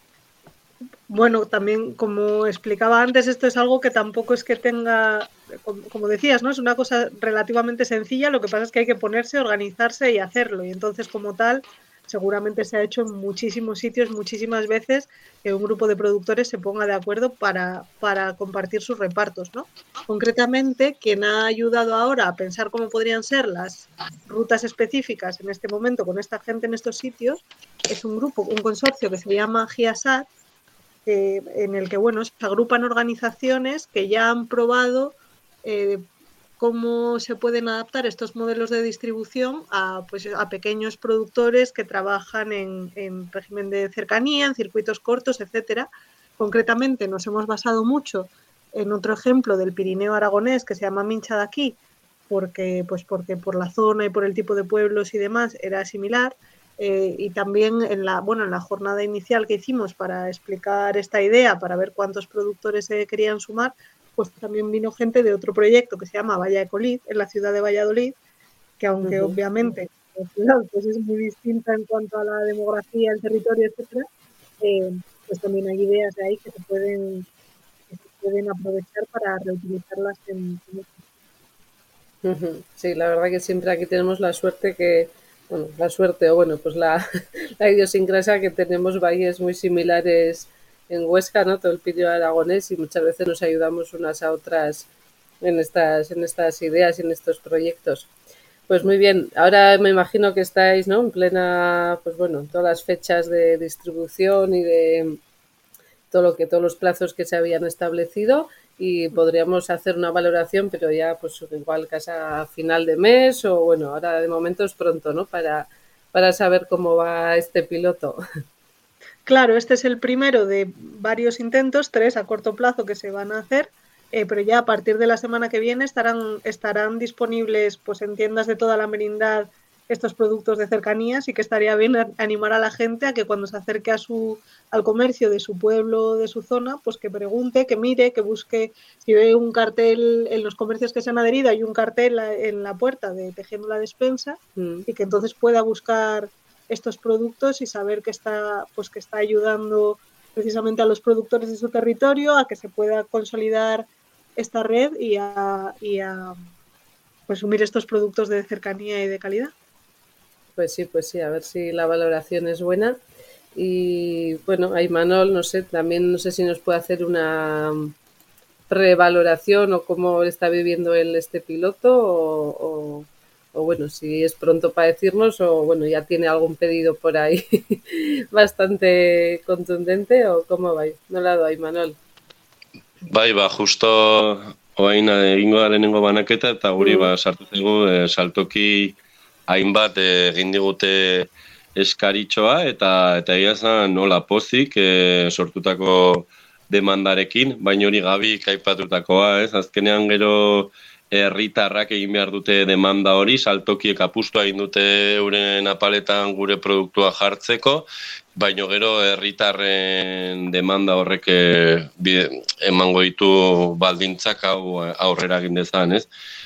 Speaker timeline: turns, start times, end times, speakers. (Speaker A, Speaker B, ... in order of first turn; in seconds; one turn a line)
Speaker A: 1.1-30.3
Speaker A: 31.1-36.0
Speaker A: 36.6-51.8
Speaker A: 52.3-68.2
Speaker A: 68.8-74.0
Speaker B: 69.0-69.4
Speaker A: 74.6-77.3
Speaker A: 77.9-81.0
Speaker B: 82.2-94.9
Speaker B: 95.4-98.1
Speaker B: 98.7-105.2
Speaker B: 106.1-118.2
Speaker A: 119.3-156.4
Speaker B: 144.6-144.9
Speaker A: 157.3-159.5
Speaker B: 160.6-163.0
Speaker B: 163.6-167.9
Speaker B: 168.7-182.0
Speaker C: 183.1-189.0
Speaker B: 186.8-187.1
Speaker C: 189.5-216.1